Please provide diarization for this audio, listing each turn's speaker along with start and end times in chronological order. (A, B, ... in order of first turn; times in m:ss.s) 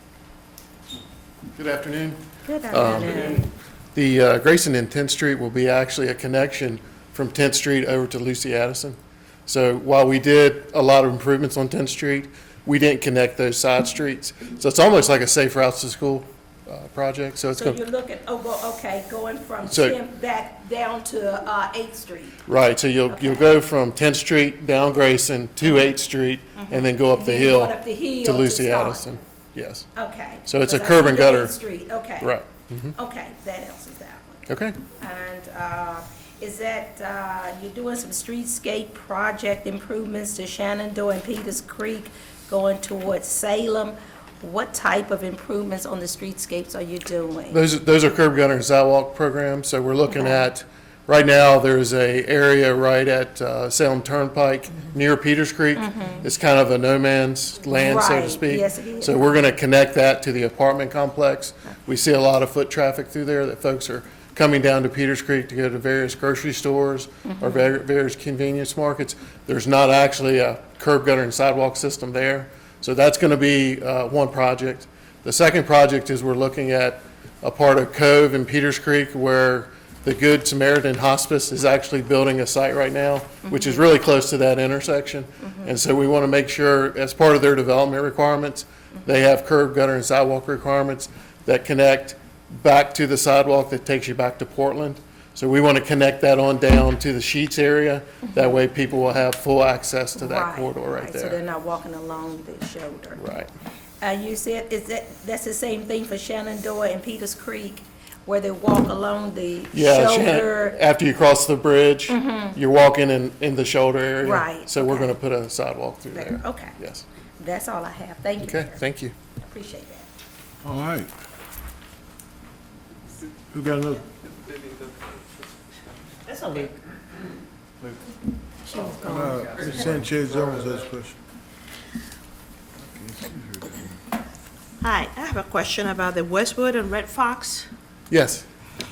0:01.6-0:17.8 A
0:02.4-0:03.5 B
0:17.6-0:22.4 B
0:19.7-0:20.0 A
0:22.5-0:29.9 A
0:23.1-0:23.5 B
0:26.6-0:29.0 B
0:30.0-0:32.3 B
0:30.5-0:31.5 A
0:32.2-0:33.0 A
0:33.0-0:34.5 B
0:34.5-0:34.8 A
0:35.0-0:47.6 B
0:47.5-1:41.4 A
0:50.1-0:50.4 B
0:55.8-0:56.2 B
0:57.7-0:59.4 B
1:07.3-1:07.6 B
1:40.2-1:43.2 B
1:43.2-1:43.5 A
1:44.0-1:50.8 B
1:49.7-1:57.0 A
1:52.1-1:52.6 B
1:54.2-1:55.1 B
1:56.1-1:56.8 B
1:57.4-1:58.8 B
1:58.4-1:59.1 A
1:59.4-2:00.1 B
2:00.6-2:01.1 C
2:03.5-2:04.0 C
2:08.8-2:09.7 D
2:09.0-2:11.2 C
2:13.0-2:13.7 C
2:14.8-2:17.7 D
2:18.1-2:18.4 A